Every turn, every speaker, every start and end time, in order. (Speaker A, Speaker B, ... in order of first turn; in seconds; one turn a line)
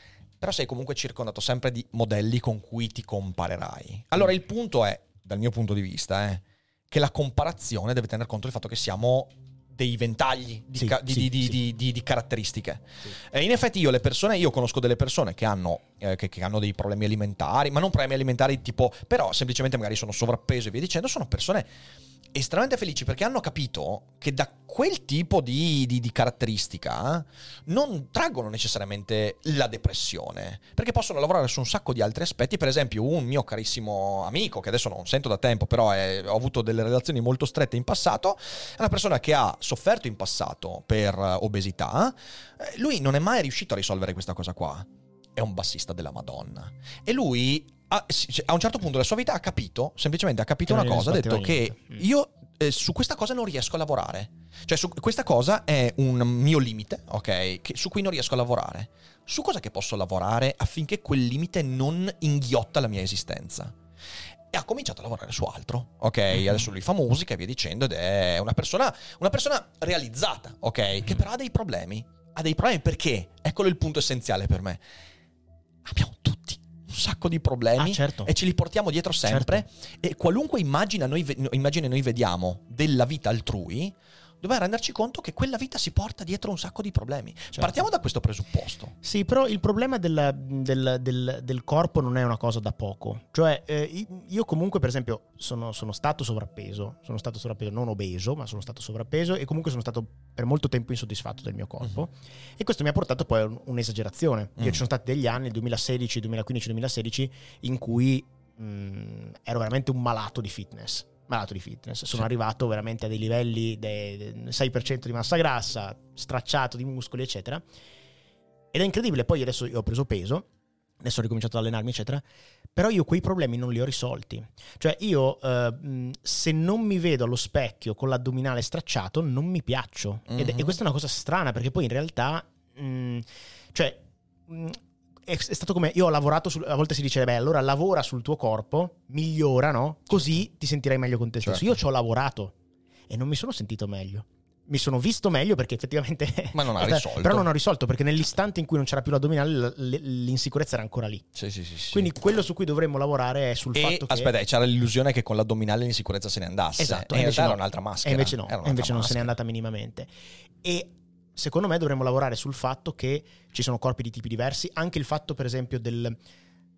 Speaker A: 0.4-21.7
Speaker B: 10.7-11.5
Speaker A: 22.3-63.7
Speaker B: 50.7-52.0
Speaker A: 64.5-74.8
Speaker A: 75.8-88.9
Speaker B: 77.8-78.3
Speaker B: 79.2-79.6
Speaker B: 87.5-87.8
Speaker B: 89.0-117.6
Speaker B: 118.7-120.5
Speaker B: 121.0-122.2
Speaker B: 122.8-142.5
Speaker A: 130.3-130.8
Speaker B: 143.1-151.2
Speaker A: 146.5-147.5
Speaker A: 151.3-152.1
Speaker B: 151.9-154.3
Speaker A: 153.7-159.3
Speaker B: 156.8-160.1
Speaker B: 160.6-166.2